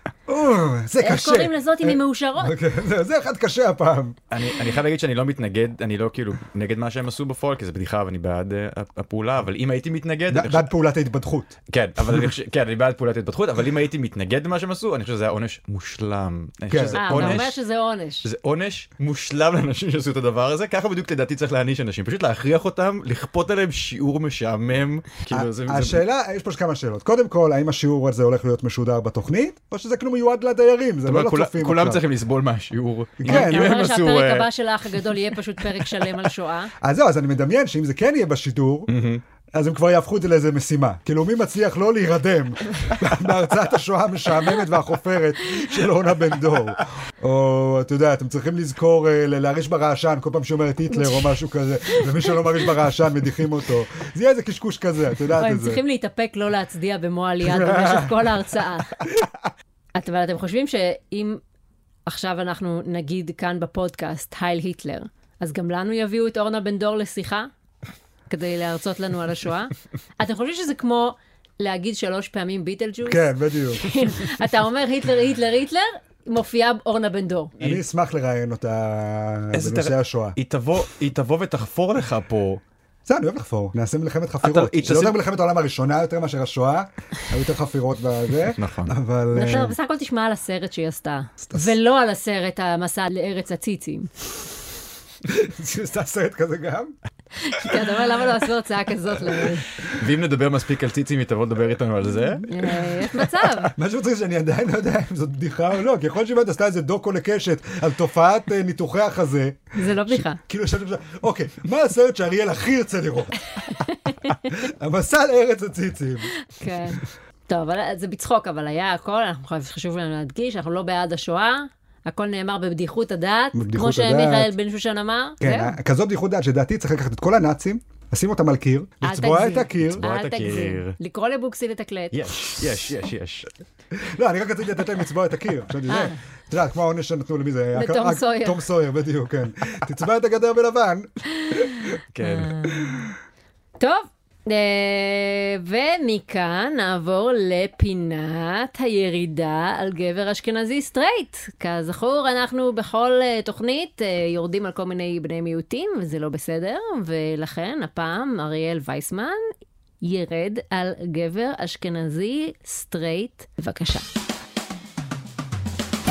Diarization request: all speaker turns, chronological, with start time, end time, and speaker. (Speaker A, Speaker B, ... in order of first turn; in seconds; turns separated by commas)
Speaker A: 0.3-4.2, Speaker B: 1.0-2.5, Speaker C: 4.3-10.7, Speaker A: 10.3-11.5, Speaker C: 11.7-17.6, Speaker A: 16.7-17.4, Speaker B: 16.9-18.3, Speaker C: 18.2-26.0, Speaker A: 25.3-32.0, Speaker C: 31.1-34.5, Speaker A: 33.2-33.9, Speaker B: 33.3-36.7, Speaker A: 36.8-38.9, Speaker C: 38.9-39.2, Speaker A: 39.5-55.8, Speaker B: 55.4-59.0, Speaker A: 57.4-58.2, Speaker B: 59.9-61.4, Speaker B: 62.1-67.5, Speaker B: 68.3-77.5, Speaker A: 73.0-73.9, Speaker A: 77.6-80.4, Speaker C: 79.5-82.6, Speaker A: 83.0-89.7, Speaker C: 84.4-85.2, Speaker C: 88.6-88.9, Speaker B: 89.3-94.1, Speaker A: 95.2-96.9, Speaker B: 97.4-99.7, Speaker C: 99.8-103.3, Speaker B: 102.5-103.7, Speaker A: 103.7-113.5, Speaker B: 109.7-110.4, Speaker B: 113.8-114.4, Speaker A: 114.5-116.3, Speaker B: 116.5-125.7, Speaker A: 123.5-124.5, Speaker A: 125.4-130.0, Speaker B: 129.0-132.2, Speaker C: 130.0-130.9, Speaker C: 132.1-133.5, Speaker A: 133.9-141.9, Speaker B: 135.9-136.2, Speaker B: 137.7-138.6, Speaker C: 142.1-142.7, Speaker B: 142.2-143.0, Speaker A: 142.7-143.1, Speaker B: 143.8-159.4, Speaker B: 160.0-164.0